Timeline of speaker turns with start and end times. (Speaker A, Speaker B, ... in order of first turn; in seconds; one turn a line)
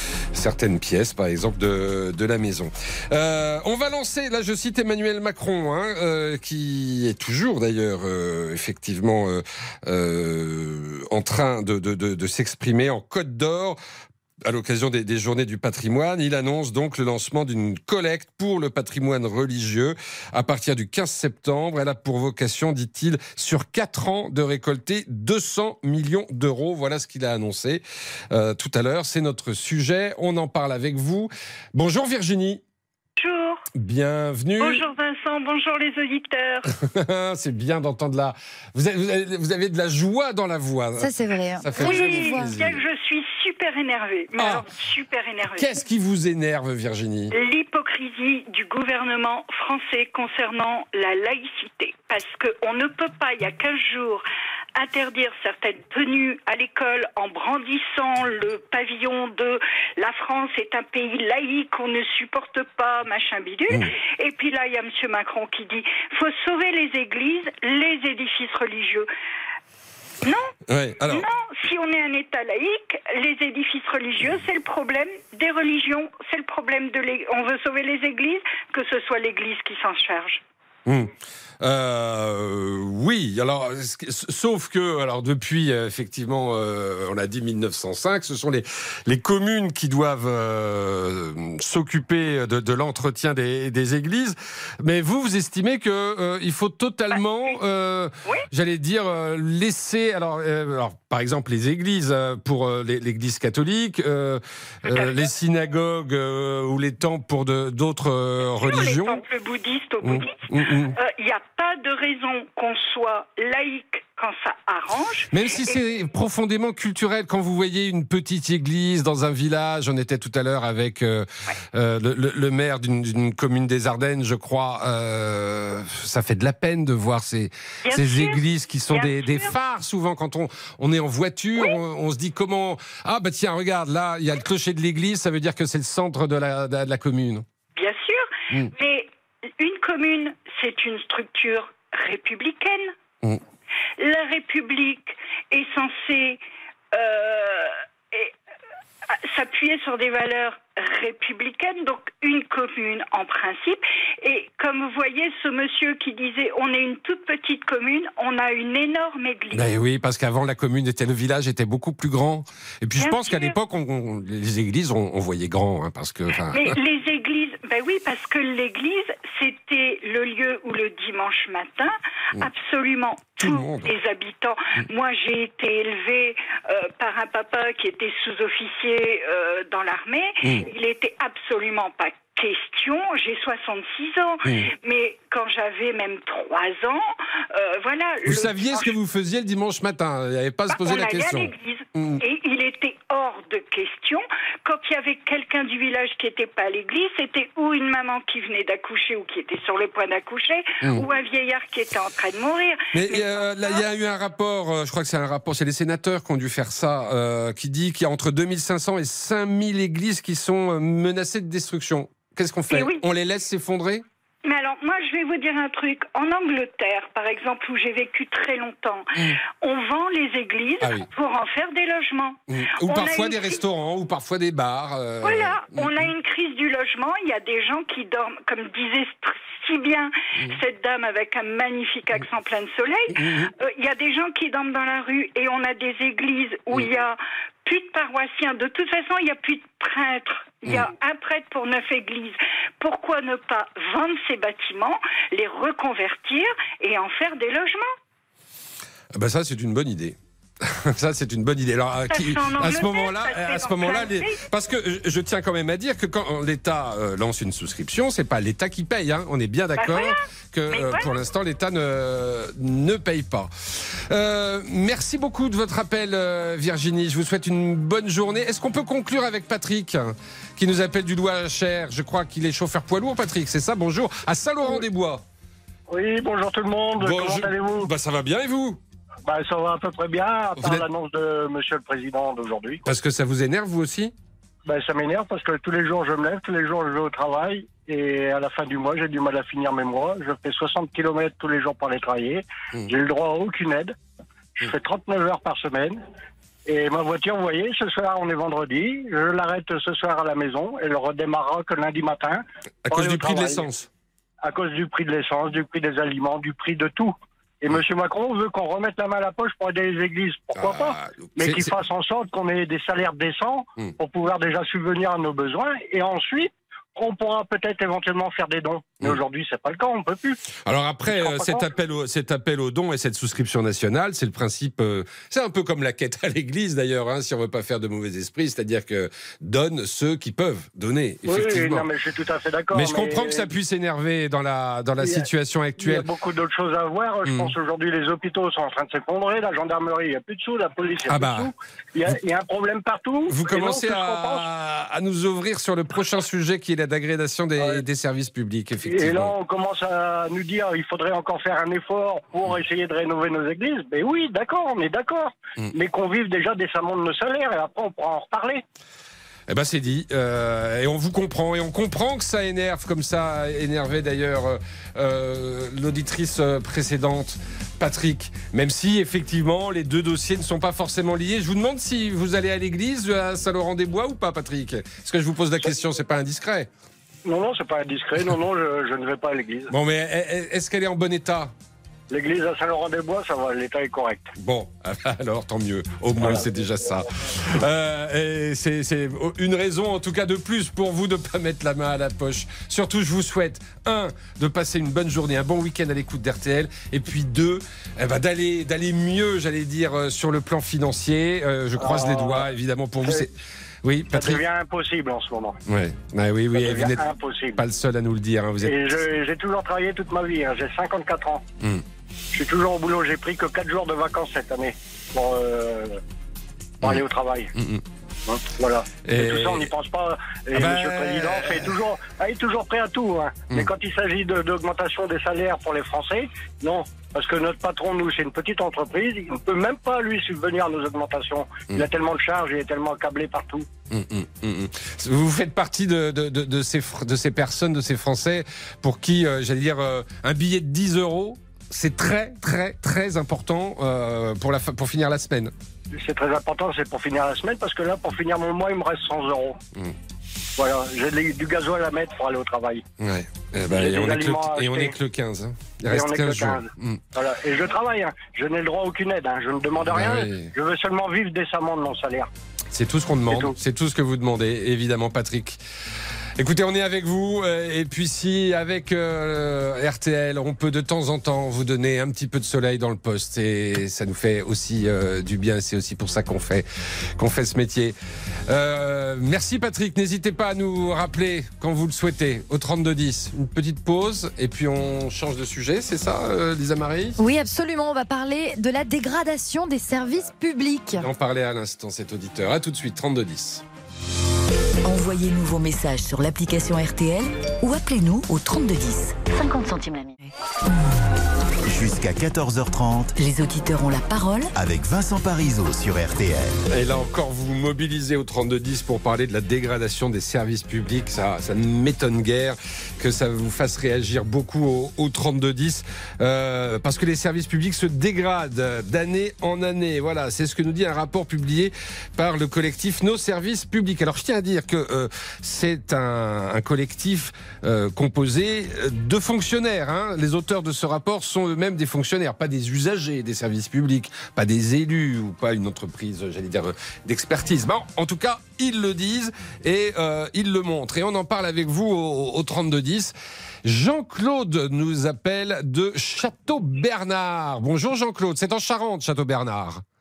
Speaker A: 0.3-13.8
Speaker A: 14.4-32.6
Speaker B: 33.2-33.6
Speaker A: 33.8-34.8
Speaker B: 34.6-36.7
Speaker A: 36.7-42.8
Speaker C: 41.0-42.5
Speaker B: 41.8-45.6
Speaker A: 44.4-44.6
Speaker A: 45.4-47.3
Speaker B: 47.3-54.2
Speaker B: 54.8-69.1
Speaker B: 70.2-70.5
Speaker A: 70.7-71.3
Speaker B: 71.1-80.4
Speaker A: 80.8-109.2
Speaker B: 108.6-110.4
Speaker A: 110.0-111.0
Speaker B: 110.9-115.4
Speaker A: 115.3-137.4
Speaker B: 127.8-129.5
Speaker B: 137.8-142.9
Speaker B: 144.0-146.4
Speaker B: 146.9-148.3
Speaker B: 149.1-159.6
Speaker A: 159.5-166.8
Speaker B: 162.9-163.6
Speaker B: 166.5-188.9
Speaker A: 173.4-173.9
Speaker A: 184.4-184.7
Speaker A: 188.2-192.2
Speaker B: 190.7-203.8
Speaker A: 200.8-201.1
Speaker A: 202.9-214.0
Speaker B: 212.7-213.0
Speaker B: 214.4-219.1
Speaker B: 219.6-223.6
Speaker A: 220.8-221.1
Speaker A: 222.5-226.1
Speaker B: 225.2-247.9
Speaker A: 233.1-233.5
Speaker A: 249.1-263.5
Speaker B: 252.1-254.4
Speaker B: 259.8-260.2
Speaker B: 260.7-261.2
Speaker A: 264.1-275.2
Speaker D: 275.9-277.9
Speaker A: 277.0-278.8
Speaker D: 279.2-282.8
Speaker A: 280.6-280.9
Speaker A: 282.8-284.1
Speaker D: 284.6-293.9
Speaker D: 294.6-296.0
Speaker D: 296.6-303.6
Speaker A: 302.9-303.9
Speaker D: 304.4-320.4
Speaker A: 310.6-311.7
Speaker A: 320.6-331.9
Speaker D: 321.1-321.7
Speaker D: 331.2-333.5
Speaker A: 332.7-336.1
Speaker D: 335.0-335.2
Speaker D: 335.8-344.4
Speaker A: 337.2-337.5
Speaker A: 341.1-341.5
Speaker A: 343.3-349.3
Speaker D: 347.6-347.8
Speaker D: 348.8-358.6
Speaker A: 359.5-376.7
Speaker D: 377.2-379.7
Speaker A: 379.7-381.5
Speaker D: 382.1-384.3
Speaker A: 384.4-403.3
Speaker D: 386.2-386.6
Speaker D: 401.8-402.5
Speaker A: 403.8-404.4
Speaker D: 404.1-405.6
Speaker A: 405.7-409.0
Speaker D: 406.5-407.6
Speaker D: 408.6-411.4
Speaker D: 412.3-416.0
Speaker D: 416.8-417.5
Speaker A: 417.6-417.8
Speaker D: 418.3-433.7
Speaker A: 419.0-419.7
Speaker A: 420.5-421.7
Speaker A: 433.9-445.5
Speaker D: 445.9-449.6
Speaker D: 450.6-452.8
Speaker A: 453.0-457.0
Speaker D: 453.7-454.9
Speaker D: 455.9-462.3
Speaker A: 459.9-460.5
Speaker A: 462.7-465.6
Speaker D: 463.3-463.5
Speaker A: 466.4-476.6
Speaker A: 477.2-477.9
Speaker A: 478.5-487.2
Speaker C: 487.2-491.0
Speaker A: 491.0-493.6
Speaker E: 494.8-500.1
Speaker F: 501.6-503.1
Speaker E: 503.2-504.5
Speaker F: 504.6-506.6
Speaker A: 506.7-543.1
Speaker A: 543.6-549.8